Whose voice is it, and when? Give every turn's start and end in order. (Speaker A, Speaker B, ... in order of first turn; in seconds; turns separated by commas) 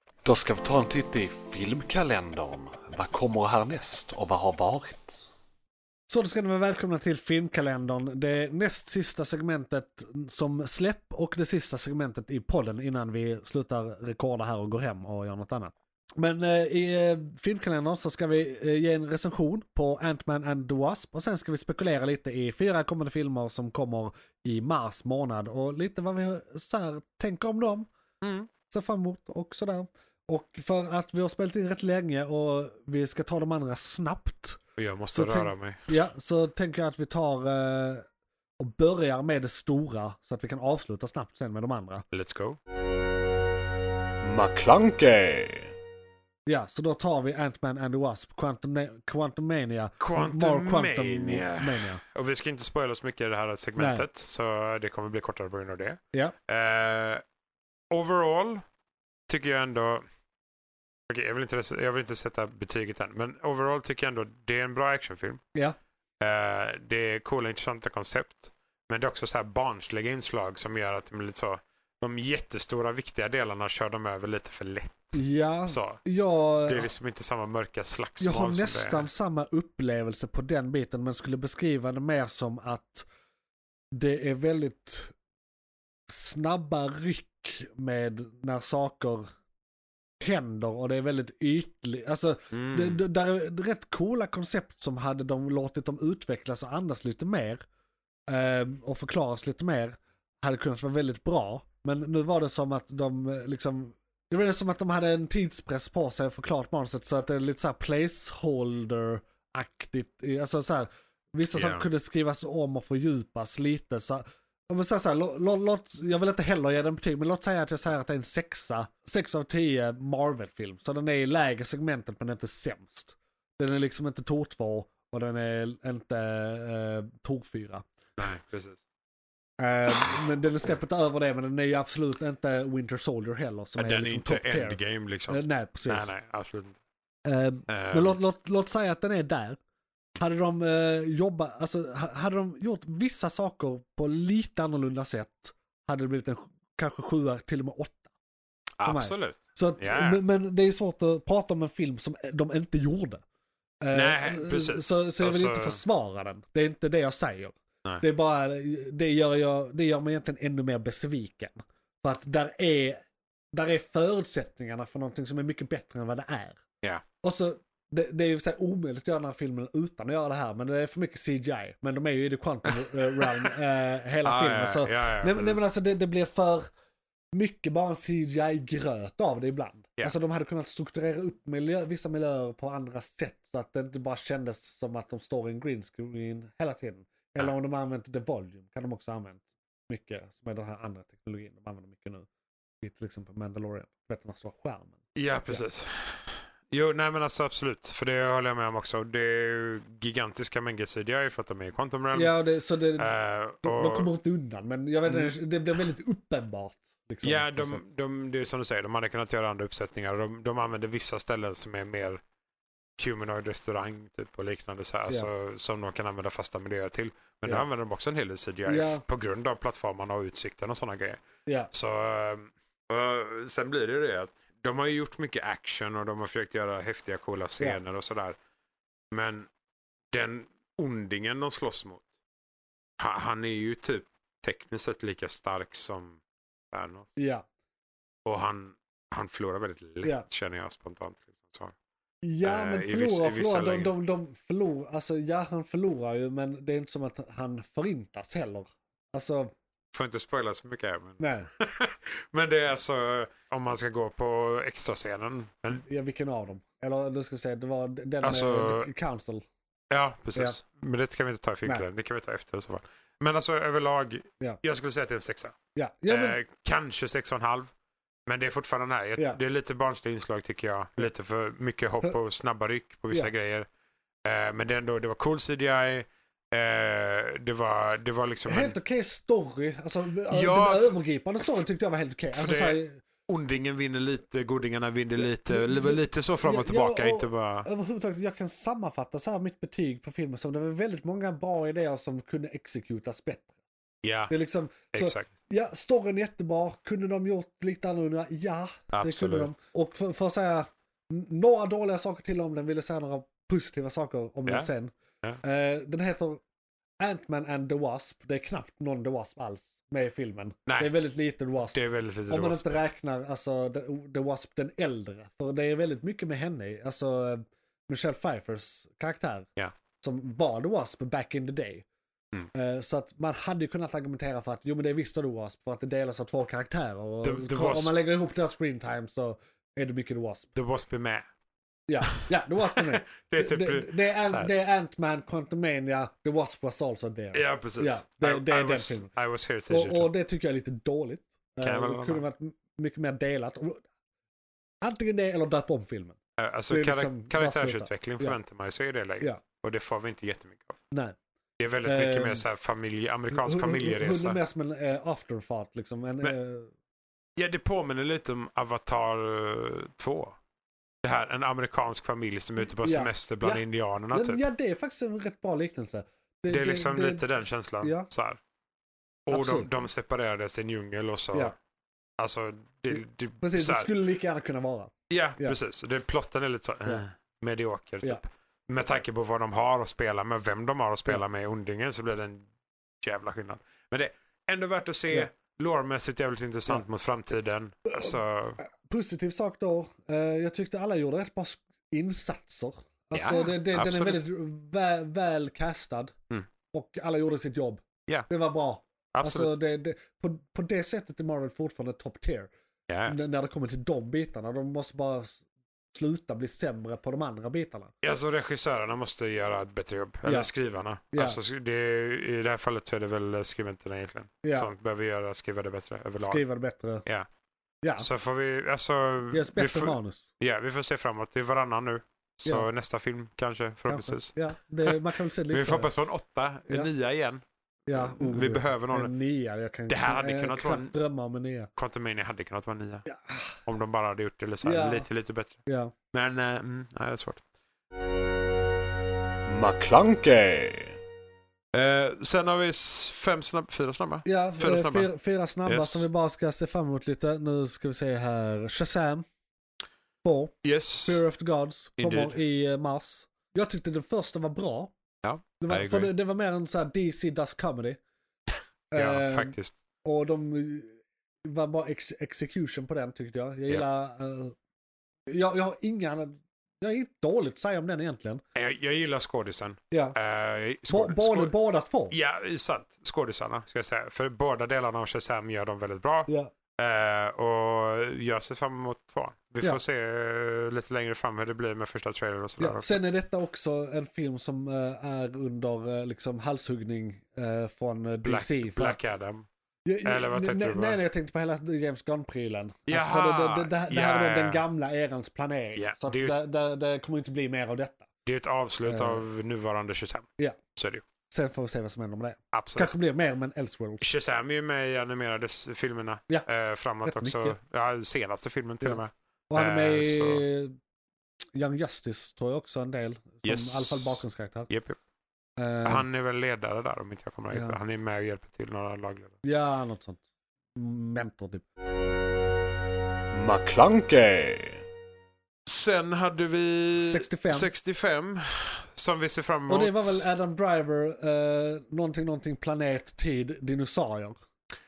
Speaker A: 0.2-5.3, Speaker B: 6.1-27.9, Speaker C: 28.2-28.5, Speaker B: 28.7-34.6, Speaker C: 34.8-35.8, Speaker B: 35.1-38.0, Speaker B: 38.6-42.0, Speaker C: 42.1-42.6, Speaker A: 44.2-45.7, Speaker B: 46.5-52.0, Speaker C: 50.0-57.2, Speaker B: 53.8-54.0, Speaker C: 57.9-58.6, Speaker C: 59.3-60.0, Speaker C: 61.1-65.4, Speaker C: 66.2-75.1, Speaker B: 75.1-76.9, Speaker C: 75.7-76.0, Speaker C: 76.7-79.1, Speaker B: 78.2-83.1, Speaker B: 84.0-85.1, Speaker B: 86.1-89.2, Speaker B: 90.2-97.6, Speaker C: 92.5-93.0, Speaker B: 98.3-127.8, Speaker C: 111.5-111.8, Speaker C: 128.2-128.8, Speaker B: 129.6-136.1, Speaker C: 133.8-136.8, Speaker B: 137.2-139.6, Speaker C: 137.7-138.2, Speaker B: 140.2-148.0, Speaker C: 148.8-150.2, Speaker B: 148.8-153.2, Speaker B: 153.8-163.0, Speaker C: 153.9-155.8, Speaker B: 163.5-166.6, Speaker B: 167.2-176.7, Speaker C: 173.2-173.5, Speaker C: 174.2-175.7, Speaker B: 177.3-192.2, Speaker B: 192.8-195.6, Speaker C: 195.2-202.4, Speaker B: 202.1-207.8, Speaker C: 203.0-204.1, Speaker C: 205.1-205.3, Speaker C: 207.2-212.2, Speaker C: 213.0-228.3, Speaker B: 218.7-219.0, Speaker B: 221.4-221.7, Speaker C: 229.1-229.5, Speaker C: 230.1-232.1, Speaker C: 233.0-236.2, Speaker C: 236.7-237.1, Speaker B: 237.2-237.4, Speaker C: 238.2-241.7, Speaker B: 242.2-249.5, Speaker C: 242.4-243.9, Speaker C: 249.9-255.8, Speaker B: 251.2-251.5, Speaker B: 255.7-259.4, Speaker C: 258.2-258.9, Speaker C: 259.9-265.5, Speaker B: 265.8-266.4, Speaker C: 266.1-267.7, Speaker C: 268.2-273.7, Speaker C: 274.2-278.8, Speaker B: 278.4-283.0, Speaker C: 280.3-281.0, Speaker C: 282.3-287.7, Speaker B: 285.2-293.6, Speaker C: 294.0-294.3, Speaker B: 294.3-306.4, Speaker C: 294.9-295.3, Speaker C: 298.9-299.6, Speaker B: 307.0-311.8, Speaker C: 310.7-310.9, Speaker C: 311.7-312.8, Speaker B: 312.3-319.5, Speaker B: 320.0-321.8, Speaker B: 322.5-330.5, Speaker C: 327.2-327.9, Speaker C: 330.6-331.2, Speaker B: 331.9-339.1, Speaker C: 332.6-334.5, Speaker C: 337.3-340.1, Speaker B: 339.7-343.8, Speaker C: 341.6-342.2, Speaker B: 344.8-346.2, Speaker C: 346.4-350.8, Speaker B: 346.7-348.4, Speaker B: 350.9-351.1, Speaker C: 351.6-354.4, Speaker B: 351.8-352.5, Speaker B: 353.3-356.7, Speaker C: 357.4-360.3, Speaker C: 361.0-364.4, Speaker B: 362.6-367.2, Speaker C: 366.5-368.4, Speaker B: 367.8-368.1, Speaker C: 369.3-371.5, Speaker B: 369.3-369.7, Speaker C: 372.2-373.9, Speaker B: 372.9-375.6, Speaker C: 375.1-382.4, Speaker C: 383.0-388.6, Speaker B: 387.9-396.1, Speaker C: 393.1-394.2, Speaker B: 396.7-402.5, Speaker C: 399.1-399.5, Speaker C: 402.9-403.1, Speaker B: 403.1-407.9, Speaker C: 408.0-416.4, Speaker B: 410.2-410.5, Speaker B: 411.1-411.4, Speaker B: 414.4-414.7, Speaker B: 416.2-417.0, Speaker B: 417.8-418.1, Speaker C: 418.0-425.0, Speaker B: 419.3-420.3, Speaker B: 423.9-425.9, Speaker C: 425.5-429.1, Speaker B: 427.9-431.7, Speaker C: 429.9-430.9, Speaker C: 431.8-433.1, Speaker B: 433.1-433.6, Speaker C: 433.6-437.4, Speaker B: 434.6-435.1, Speaker B: 435.6-435.9, Speaker A: 439.5-440.9, Speaker C: 441.7-445.1, Speaker B: 444.2-449.2, Speaker C: 445.6-446.1, Speaker B: 450.2-454.9, Speaker C: 450.6-451.2, Speaker C: 452.0-452.4, Speaker C: 455.2-456.1, Speaker B: 455.6-458.0, Speaker B: 458.9-464.5, Speaker C: 458.9-459.7, Speaker B: 465.3-468.4, Speaker C: 468.5-471.5, Speaker B: 469.9-470.2, Speaker B: 470.9-472.1, Speaker C: 472.1-483.0, Speaker B: 476.3-476.5, Speaker B: 482.6-489.0, Speaker C: 488.2-489.4, Speaker B: 489.8-498.1, Speaker C: 490.0-491.0, Speaker C: 492.9-494.6, Speaker C: 495.8-496.3, Speaker C: 498.2-501.0, Speaker B: 498.8-499.2, Speaker B: 501.3-504.0, Speaker C: 502.5-502.9, Speaker C: 504.0-510.4, Speaker B: 507.0-507.6, Speaker B: 508.8-510.7, Speaker B: 511.5-514.7, Speaker C: 513.4-515.0, Speaker B: 515.6-516.0, Speaker C: 515.8-519.4, Speaker B: 517.5-517.8, Speaker B: 519.4-520.2, Speaker B: 520.7-521.6, Speaker A: 523.3-524.8, Speaker C: 525.6-530.2, Speaker B: 527.0-527.7, Speaker B: 529.7-534.4